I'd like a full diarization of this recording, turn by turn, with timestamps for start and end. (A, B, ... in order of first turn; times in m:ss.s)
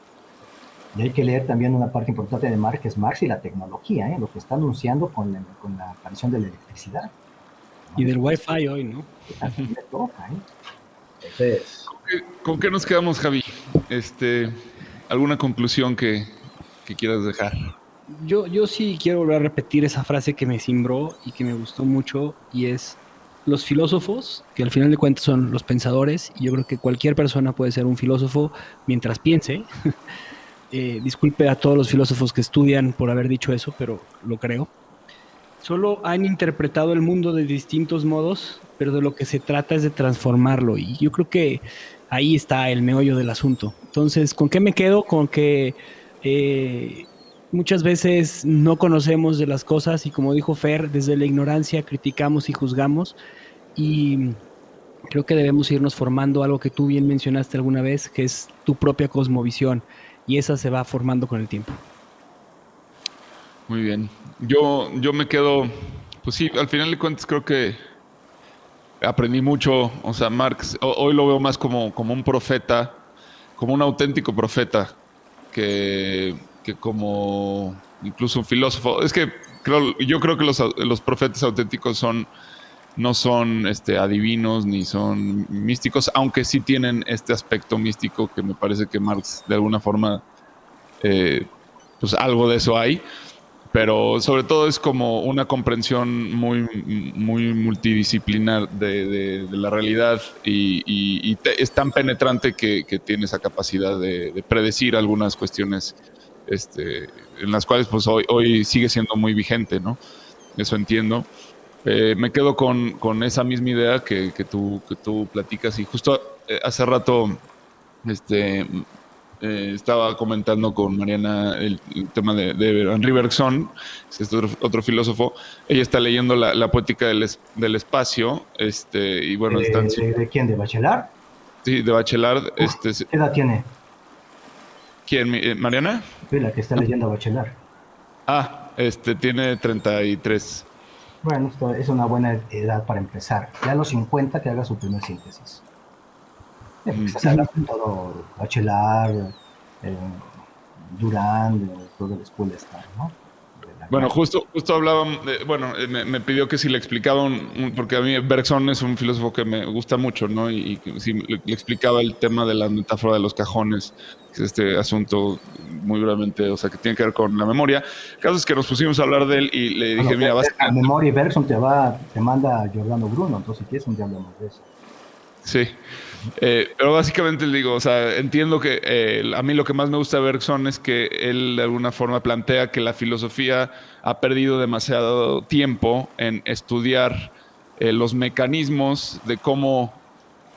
0:00.9-0:07.1 A
0:07.9-0:08.2 A
0:08.0-0:09.1 B
0:09.3-0:10.4 A
0:11.2-0:11.9 A
0:11.9-0:17.7 C
0:18.1-0:29.7 B
0:30.7-0:34.7 B
0:35.6-0:53.2 B
0:53.8-0:54.4 B
0:55.1-1:01.8 B
1:03.7-1:07.8 C
1:09.0-1:13.0 C
1:13.6-1:15.0 C
1:15.5-1:22.3 C
1:23.0-1:30.2 C
1:31.0-1:33.0 C
1:33.7-1:46.0 C
1:46.5-1:50.0 C
1:50.6-1:51.3 C
1:51.8-1:57.4 C
1:58.0-1:58.8 C
1:59.4-2:10.0 C
2:09.5-2:11.1 A
2:11.6-2:13.1 C
2:12.6-2:13.7 A
2:15.1-2:16.0 C
2:16.3-2:17.6 A
2:18.3-2:20.7 C
2:21.2-2:25.6 A
2:26.8-2:30.3 A
2:26.9-2:27.5 C
2:30.8-2:34.1 A
2:33.9-2:50.9 C
2:50.0-2:54.6 A
2:55.4-2:55.8 C
2:56.3-3:10.0 C